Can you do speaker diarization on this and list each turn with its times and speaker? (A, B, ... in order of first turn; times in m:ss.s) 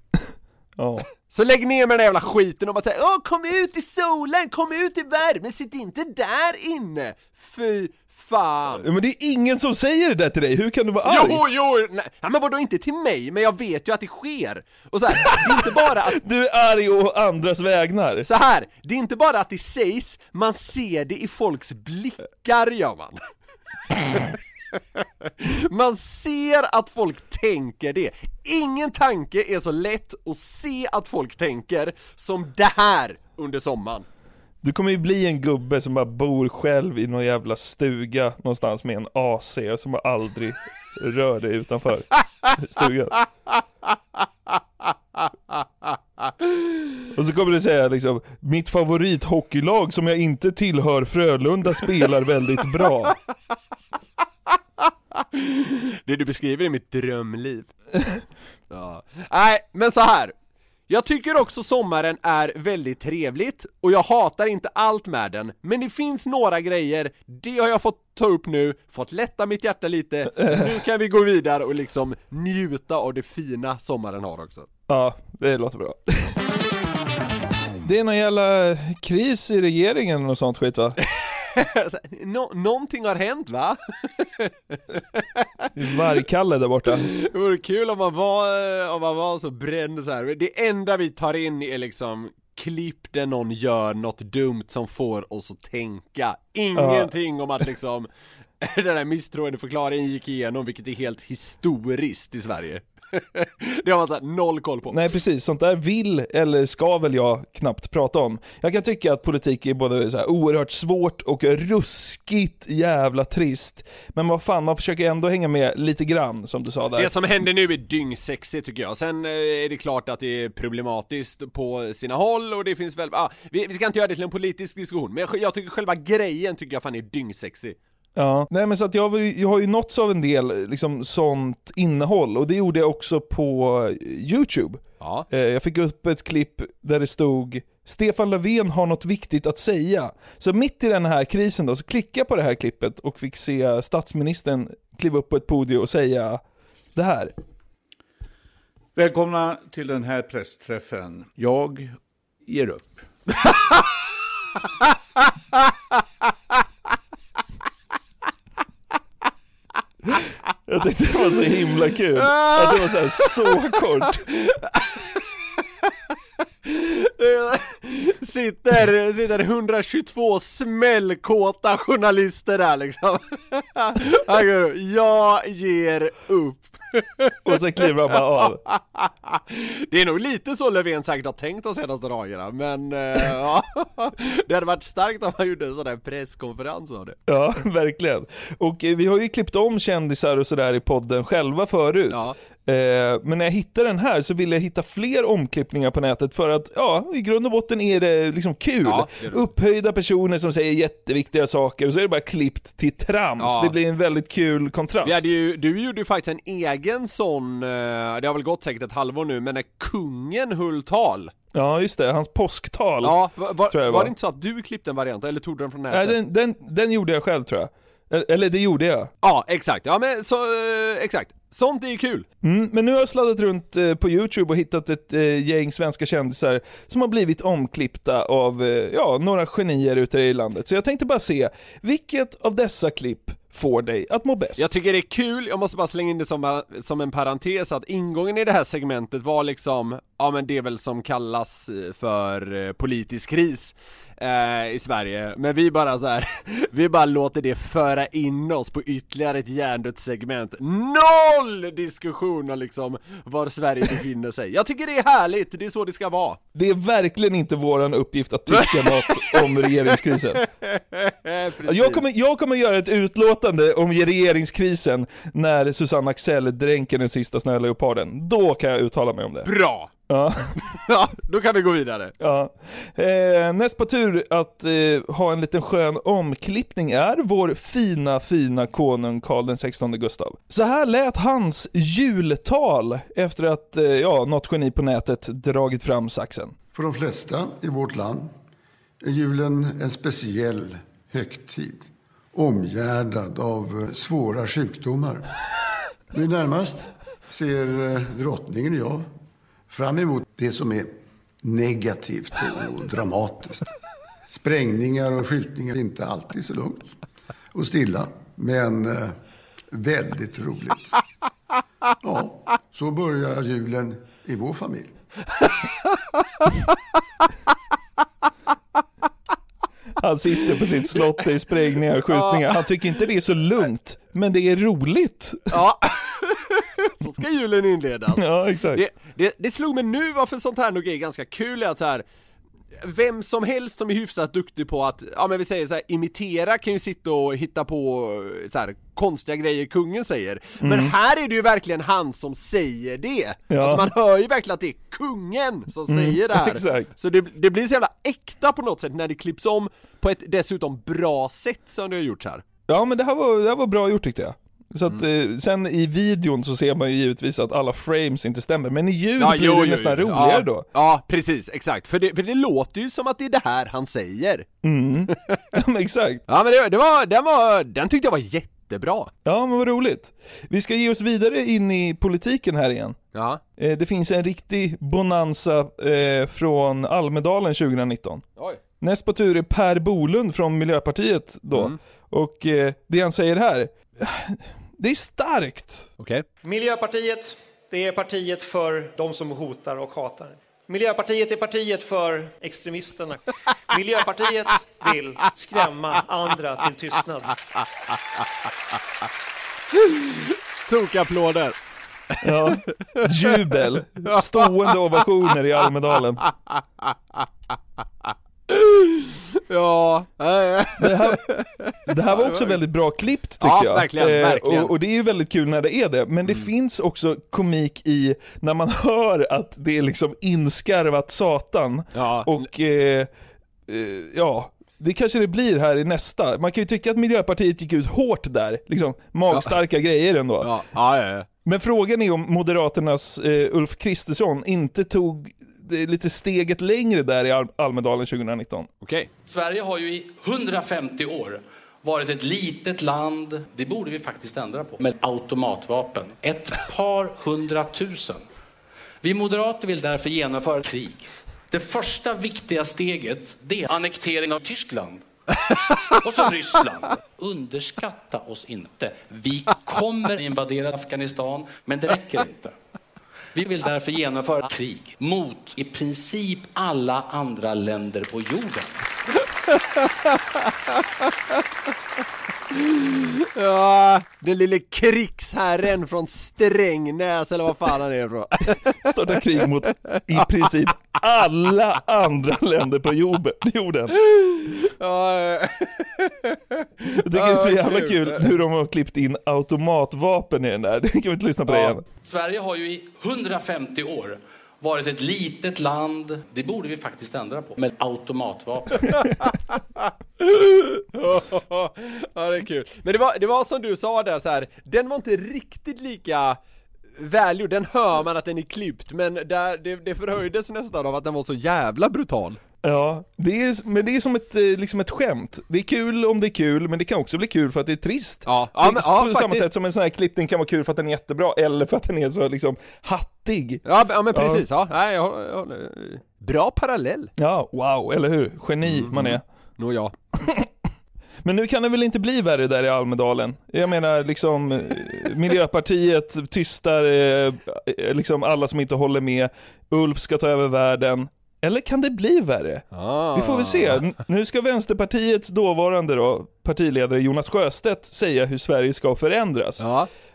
0:00.8-0:01.0 A
0:01.3-0:08.8 B
0:08.8-0:11.4 A
0:11.0-0:16.2 B
0:15.3-0:18.3 A
0:18.2-0:23.2 B
0:25.4-0:34.0 B
0:34.6-0:43.2 A
0:47.1-0:53.1 A
0:55.3-0:57.7 B
0:58.7-1:00.3 B
1:00.9-1:14.7 B
1:10.4-1:10.7 A
1:14.9-1:16.4 A
1:17.8-1:21.0 A
1:21.0-1:25.4 B
1:25.7-1:27.1 A
1:27.0-1:38.1 B
1:36.8-1:37.1 A
1:38.6-1:45.0 B
1:44.9-1:57.1 A
1:57.0-2:07.8 B
2:08.2-2:26.4 A
2:15.0-2:15.2 B
2:26.9-2:27.3 A
2:29.0-2:33.0 C
2:40.7-2:44.2 A
2:42.2-2:43.5 B
2:44.3-2:45.2 B
2:46.6-2:57.4 B
2:57.4-2:58.6 A
2:58.2-3:07.2 B
3:07.3-3:25.3 A
3:18.8-3:19.5 B
3:23.4-3:23.7 B
3:25.0-3:31.3 B
3:31.5-3:34.1 A
3:33.0-3:36.2 B
3:35.9-3:39.1 A
3:39.2-3:42.2 B
3:42.4-3:54.7 A
3:54.6-4:16.4 B
4:16.5-4:20.4 A
4:18.5-4:19.5 B
4:20.4-4:22.0 B
4:21.6-4:29.5 A
4:29.4-4:29.9 B
4:30.1-4:30.5 A
4:30.7-4:32.1 B
4:32.2-4:46.5 A
4:46.7-4:48.3 D
4:49.0-4:55.2 D
4:56.1-4:59.0 D
4:59.7-5:03.7 D
5:04.3-5:07.0 D
5:07.5-5:09.2 D
5:09.7-5:11.0 D
5:12.0-5:14.9 D
5:20.0-5:25.6 A
5:22.1-5:22.7 B
5:25.5-5:32.0 B
5:28.1-5:28.8 A
5:32.8-5:52.4 B
5:40.6-5:40.9 A
5:43.5-5:43.9 A
5:45.9-5:46.9 A
5:52.7-6:00.6 A
5:59.2-6:04.5 B
6:04.6-6:06.2 A
6:06.3-6:09.1 B
6:09.2-6:13.0 A
6:13.1-6:13.4 B
6:13.6-6:18.2 A
6:18.8-6:25.9 A
6:26.0-6:26.2 B
6:26.4-6:37.3 E
6:39.8-6:41.6 B
6:42.1-6:43.3 B
6:42.2-6:46.2 A
6:44.1-6:44.7 B
6:46.5-6:46.9 B
6:48.5-6:52.6 B
6:50.8-6:51.2 A
6:51.9-7:03.1 A
6:53.4-6:54.7 B
7:01.9-7:02.5 B
7:03.7-7:10.5 A
7:10.4-7:11.3 B
7:11.4-7:18.7 A
7:18.8-7:19.1 B
7:19.3-7:28.2 F
7:29.0-7:35.0 F
7:36.0-7:42.5 F
7:43.3-7:48.7 F
7:52.5-7:59.0 B
7:58.8-8:04.0 A
8:04.0-8:08.3 B
8:07.0-8:11.8 A
8:11.5-8:11.8 B
8:12.0-8:18.7 F
8:19.8-8:26.4 B
8:27.0-8:32.4 B
8:32.6-8:44.4 A
8:38.2-8:39.5 B
8:43.6-8:47.1 B
8:47.2-8:49.2 A
8:48.6-8:49.9 B
8:50.2-8:50.5 A
8:51.2-9:09.6 A
9:02.7-9:03.8 B
9:09.6-9:09.9 B